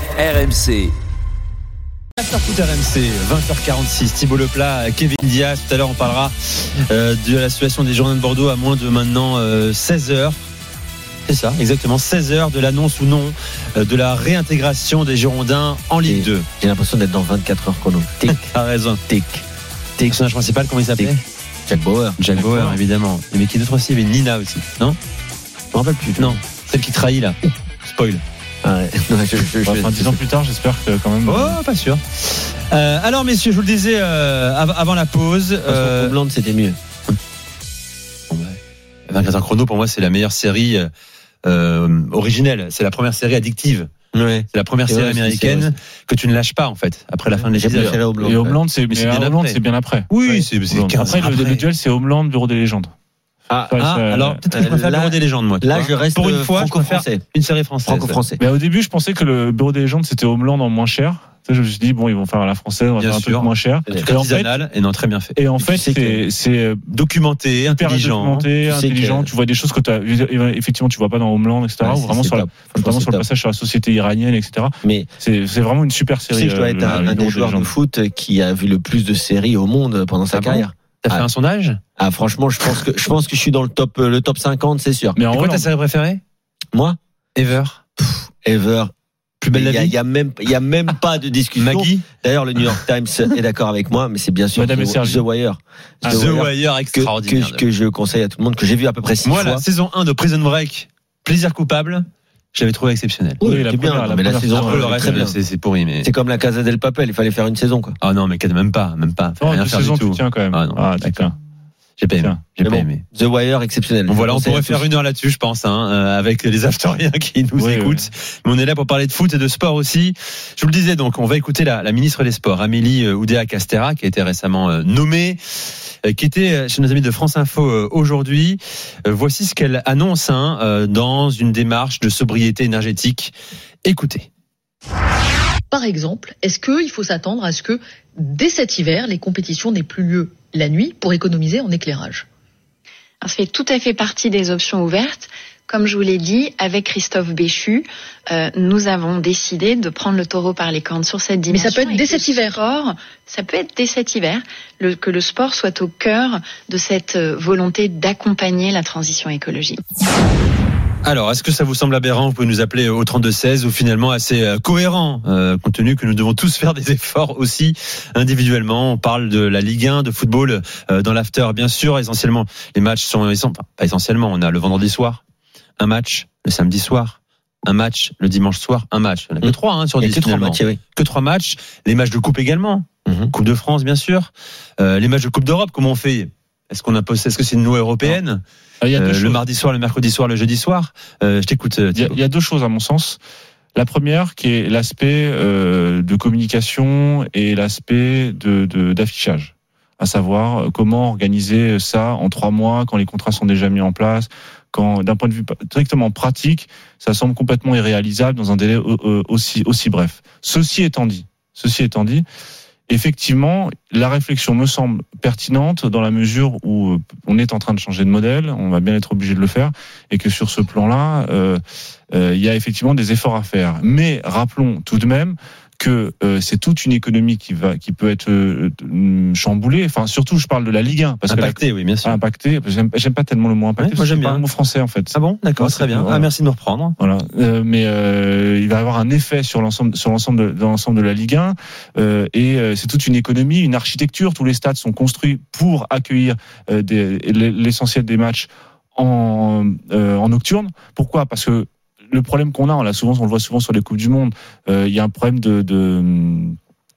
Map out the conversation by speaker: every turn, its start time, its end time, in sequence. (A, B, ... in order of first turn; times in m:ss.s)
0:00.3-0:00.9 A
0:02.2-0:10.4 A
0:11.3-0:16.5 A
0:16.0-0:18.4 B
0:18.3-0:19.0 A
0:19.0-0:19.4 B
0:20.1-0:21.2 A
0:21.7-0:22.2 B
0:22.2-0:25.0 A
0:22.4-0:22.8 C
0:25.7-0:26.4 B
0:26.2-0:28.2 A
0:28.6-0:30.2 B
0:29.6-0:31.6 C
0:31.2-0:36.2 A
0:35.7-0:36.8 B
0:38.3-0:38.6 A
0:39.1-0:40.9 A
0:41.4-0:43.9 A
0:44.1-0:45.7 B
0:44.5-0:48.0 A
0:47.5-0:48.6 B
0:48.2-0:50.1 C
0:48.9-0:51.6 A
0:50.7-0:52.9 C
0:53.5-0:53.8 B
0:53.7-0:54.4 C
0:53.8-0:58.2 A
0:54.5-0:57.2 B
0:57.8-0:58.4 B
0:58.4-1:04.5 C
1:03.0-1:05.8 A
1:05.4-1:06.8 C
1:05.8-1:06.3 B
1:06.9-1:08.5 A
1:07.7-1:17.7 C
1:08.7-1:09.3 B
1:11.8-1:13.2 B
1:16.3-1:21.3 B
1:16.9-1:17.1 A
1:20.3-1:21.8 A
1:22.0-1:25.2 B
1:25.2-1:25.7 C
1:25.3-1:26.2 A
1:27.4-1:27.8 A
1:28.4-1:28.9 B
1:29.4-1:29.9 A
1:29.5-1:39.7 B
1:31.6-1:32.0 A
1:34.6-1:35.2 C
1:36.0-1:36.4 C
1:36.1-1:37.7 A
1:39.2-1:43.5 A
1:43.4-1:45.1 C
1:43.4-1:45.4 B
1:44.5-1:46.1 A
1:46.0-1:48.0 B
1:48.0-1:51.2 A
1:49.4-1:51.3 C
1:52.0-1:53.0 A
1:52.6-1:54.9 B
1:54.1-2:05.4 A
1:57.6-1:58.1 C
2:06.0-2:13.3 A
2:13.8-2:14.3 A
2:15.7-2:22.3 D
2:23.2-2:39.8 E
2:31.5-2:32.6 D
2:41.0-2:55.2 A
2:55.8-3:08.4 A
2:59.4-3:00.8 B
3:03.1-3:03.3 B
3:08.8-3:09.4 C
3:09.0-3:12.2 A
3:11.9-3:13.2 C
3:13.8-3:32.2 C
3:32.9-3:41.6 C
3:42.1-3:56.3 C
3:51.3-3:52.2 A
3:53.8-3:54.4 A
3:55.1-3:57.0 A
3:57.0-4:16.6 C